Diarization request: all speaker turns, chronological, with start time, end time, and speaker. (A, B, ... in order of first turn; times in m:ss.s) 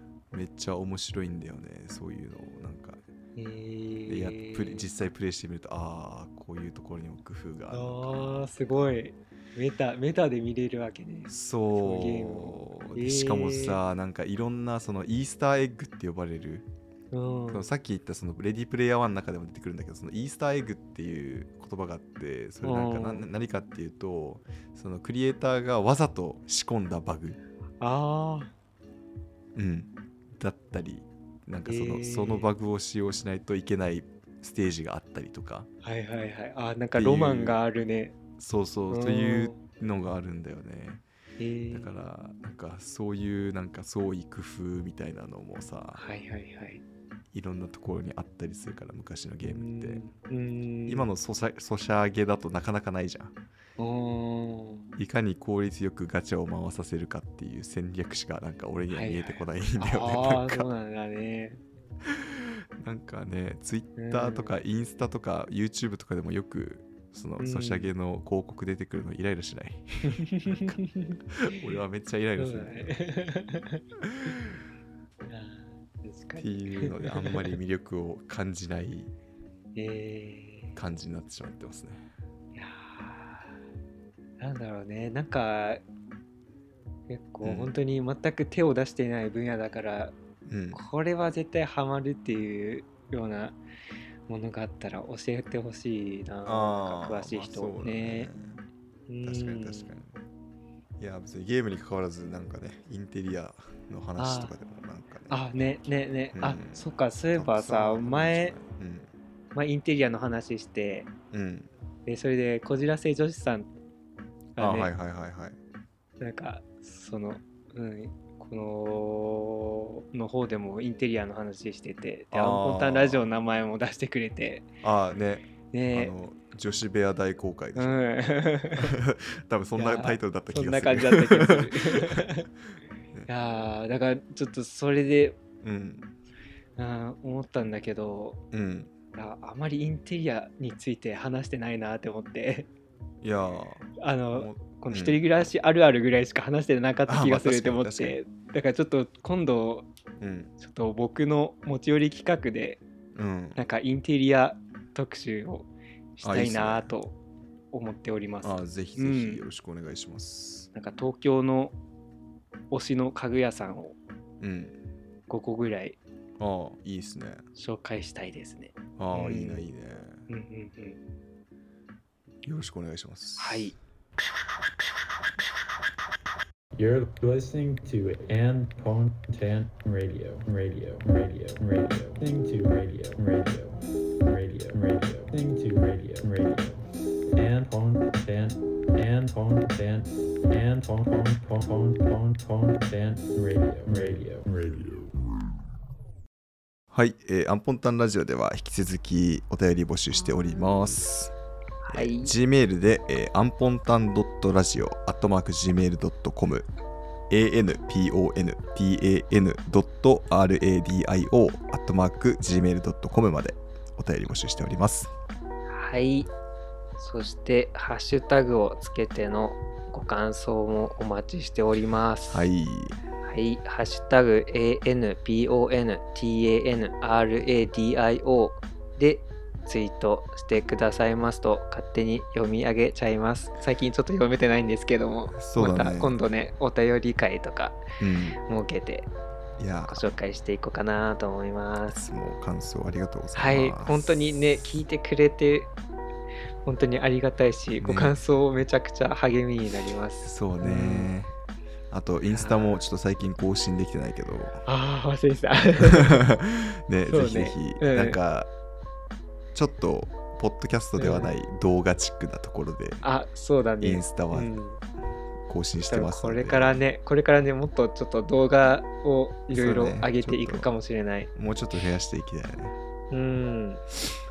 0:00.3-0:03.0 A
0:03.4-0:04.9 B
0:04.1-0:08.8 A
0:07.7-0:13.8 B
0:11.3-0:16.7 A
0:17.1-0:17.7 B
0:17.5-0:27.4 A
0:22.6-0:23.3 B
0:27.8-0:28.5 B
0:29.6-0:35.7 A
0:31.6-0:32.5 B
0:35.8-0:38.2 B
0:37.0-0:37.6 A
0:38.4-0:41.0 A
0:38.9-0:39.6 B
0:41.4-0:41.9 B
0:41.7-0:46.0 A
0:46.0-0:46.8 B
0:47.3-0:50.0 A
0:49.4-0:51.1 B
0:50.9-0:53.4 A
0:53.8-0:54.8 B
0:55.0-1:00.6 A
0:58.9-1:01.6 B
1:02.1-1:13.0 A
1:04.0-1:04.6 B
1:07.4-1:07.9 B
1:10.1-1:11.2 B
1:12.4-1:13.8 B
1:15.3-1:17.6 B
1:16.4-1:19.1 A
1:19.8-1:20.8 B
1:20.8-1:22.0 A
1:22.6-1:23.6 B
1:24.4-1:25.8 B
1:27.1-1:30.1 B
1:27.4-1:27.7 A
1:30.5-1:30.8 A
1:30.7-1:33.6 B
1:34.3-1:38.3 B
1:36.4-1:38.6 A
1:39.1-1:40.0 B
1:39.2-1:40.2 A
1:41.0-1:45.5 A
1:44.2-1:44.5 B
1:45.3-1:48.6 B
1:46.3-1:49.1 A
1:49.5-1:51.1 B
1:51.3-1:51.7 A
1:52.1-1:53.7 B
1:54.6-1:54.9 B
1:54.6-1:55.6 A
1:56.2-2:04.7 B
2:02.3-2:03.3 A
2:04.8-2:08.0 A
2:05.7-2:06.1 B
2:07.8-2:09.0 B
2:08.8-2:12.3 A
2:09.8-2:12.5 B
2:13.3-2:15.4 B
2:15.6-2:16.1 A
2:16.8-2:18.4 B
2:18.5-2:18.9 A
2:19.1-2:22.7 B
2:23.2-2:25.2 A
2:24.0-2:29.9 B
2:27.1-2:28.2 A
2:30.2-2:30.5 A
2:30.6-2:32.8 B
2:33.1-2:33.6 A
2:33.6-2:37.2 B
2:36.2-2:36.9 A
2:37.7-2:39.4 B
2:38.4-2:40.7 A
2:40.8-2:41.8 B
2:42.7-2:44.0 B
2:44.4-2:44.8 A
2:45.3-2:46.0 B
2:46.4-2:47.4 A
2:47.6-2:49.6 B
2:49.0-2:50.2 A
2:50.3-2:51.0 B
2:52.4-2:53.7 A
2:53.4-2:53.8 B
2:56.8-3:06.8 C
3:07.4-3:15.1 C
3:16.9-3:21.3 A
3:21.8-3:22.3 B
3:21.9-3:26.7 A
3:27.3-3:35.1 A
3:35.7-3:36.3 B
3:37.0-3:42.5 B
3:42.3-3:43.0 A
3:43.2-3:57.8 B
3:55.3-3:56.1 A
3:58.0-3:58.4 A
3:58.5-3:59.1 B
3:59.6-4:00.0 A
3:59.9-4:02.0 B
4:01.9-4:04.4 A
4:03.3-4:05.7 B
4:06.6-4:11.1 B
4:07.8-4:08.2 A
4:10.2-4:11.3 A
4:11.9-4:14.6 A
4:12.3-4:12.8 B
4:14.6-4:16.4 B
4:15.8-4:18.5 A
4:17.0-4:18.2 B
4:19.5-4:23.0 A
4:21.0-4:21.4 B
4:23.0-4:24.8 B
4:23.8-4:24.5 A
4:25.5-4:26.8 A
4:25.9-4:31.3 B
4:29.5-4:30.7 A
4:31.4-4:32.8 A
4:33.1-4:33.8 B